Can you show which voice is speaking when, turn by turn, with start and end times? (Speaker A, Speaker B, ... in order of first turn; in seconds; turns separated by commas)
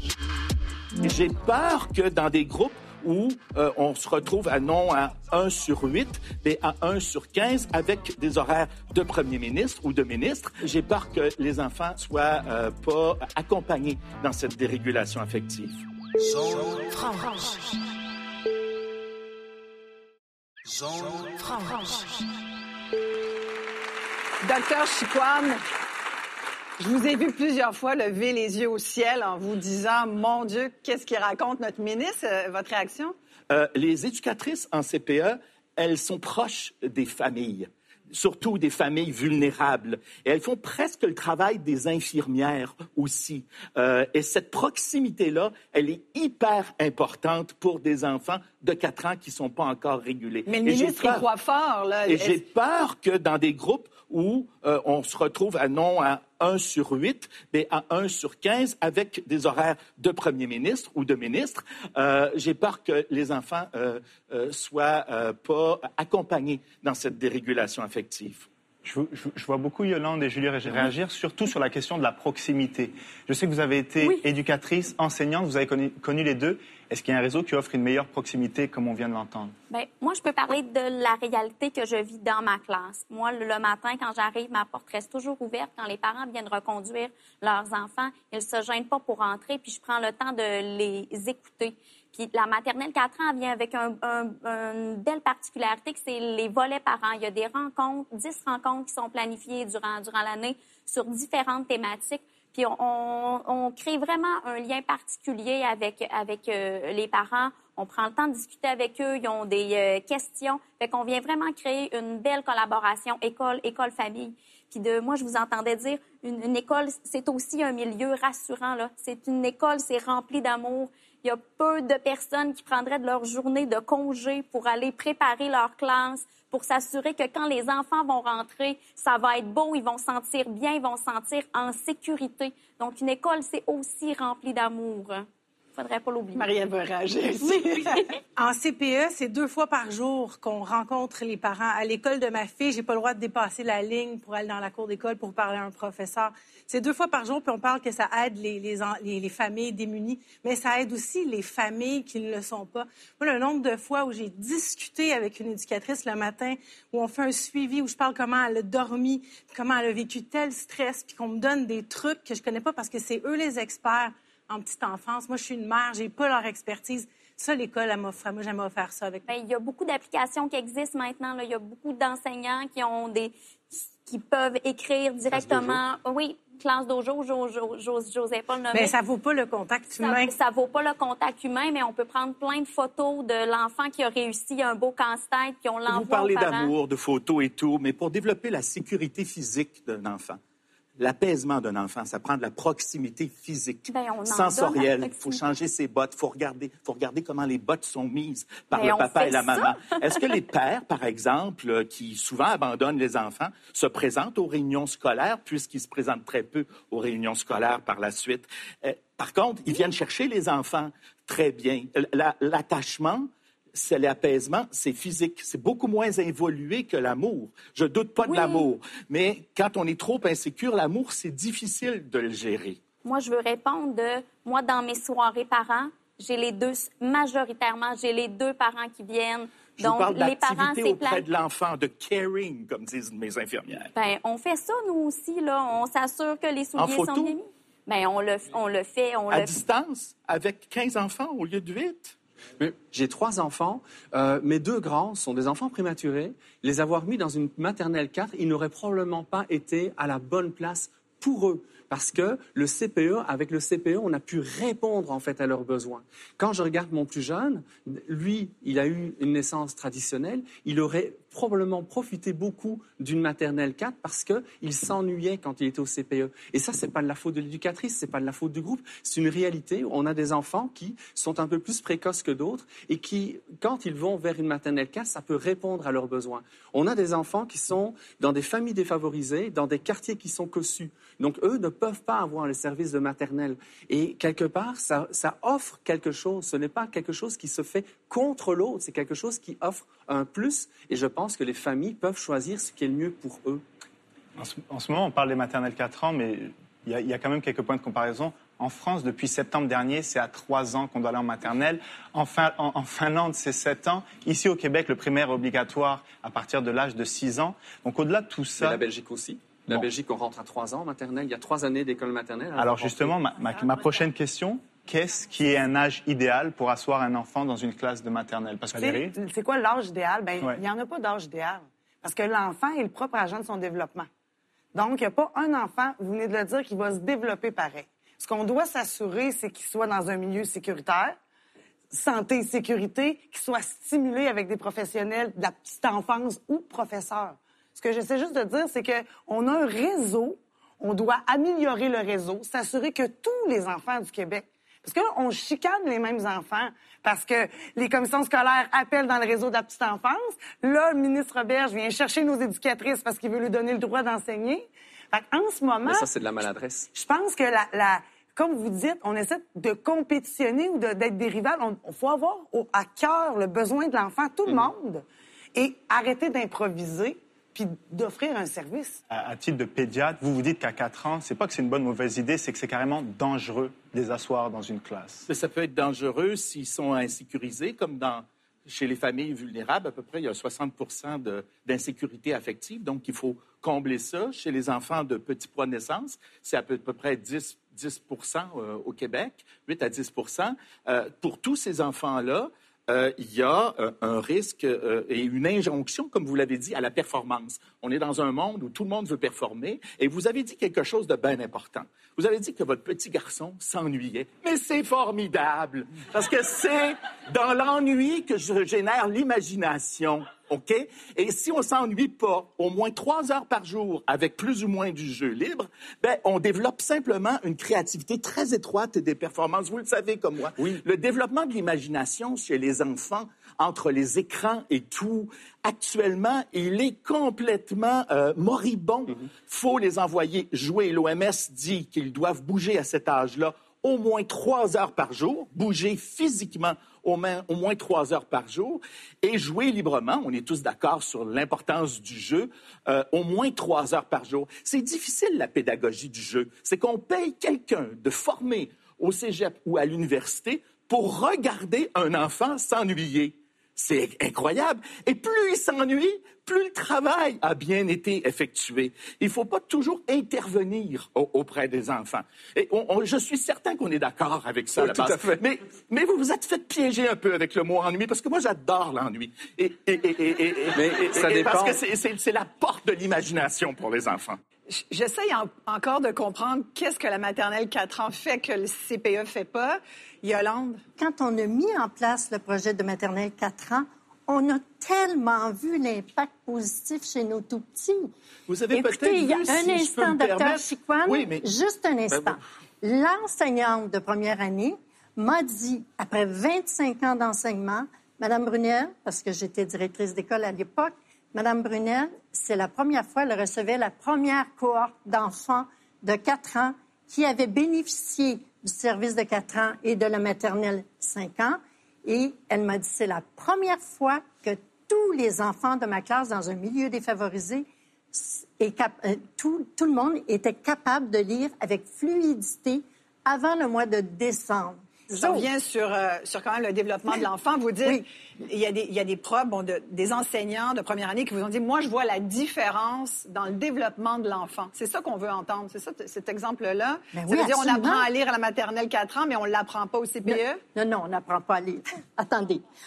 Speaker A: 1.0-15.8, Speaker B: 24.4-25.6, Speaker B: 26.8-33.1, Speaker A: 33.5-51.2, Speaker B: 50.5-52.4, Speaker A: 52.1-68.5, Speaker C: 68.8-79.5, Speaker D: 79.7-136.5, Speaker B: 136.3-138.1, Speaker D: 137.4-137.8, Speaker E: 138.4-169.3, Speaker D: 169.3-178.9, Speaker E: 178.7-180.3, Speaker D: 180.0-186.7, Speaker A: 185.9-190.4, Speaker A: 191.0-222.8, Speaker D: 193.8-195.4, Speaker D: 198.7-200.2, Speaker D: 218.2-218.7, Speaker D: 223.0-231.2, Speaker A: 229.8-233.9, Speaker D: 233.9-239.5, Speaker A: 236.8-237.3, Speaker A: 239.3-242.2, Speaker F: 242.6-293.6, Speaker C: 294.4-308.8, Speaker F: 308.6-313.1, Speaker C: 312.6-319.1, Speaker G: 318.7-324.1, Speaker G: 324.7-331.2, Speaker G: 331.9-356.1, Speaker F: 355.8-356.9, Speaker G: 356.9-369.0, Speaker C: 369.1-375.3, Speaker A: 375.3-474.4, Speaker F: 420.6-420.8, Speaker F: 464.7-465.4, Speaker F: 470.7-471.8, Speaker B: 474.7-480.8, Speaker H: 481.0-488.1, Speaker A: 488.5-491.4, Speaker H: 488.7-525.5, Speaker B: 525.1-540.6, Speaker H: 537.1-538.0, Speaker H: 540.7-542.6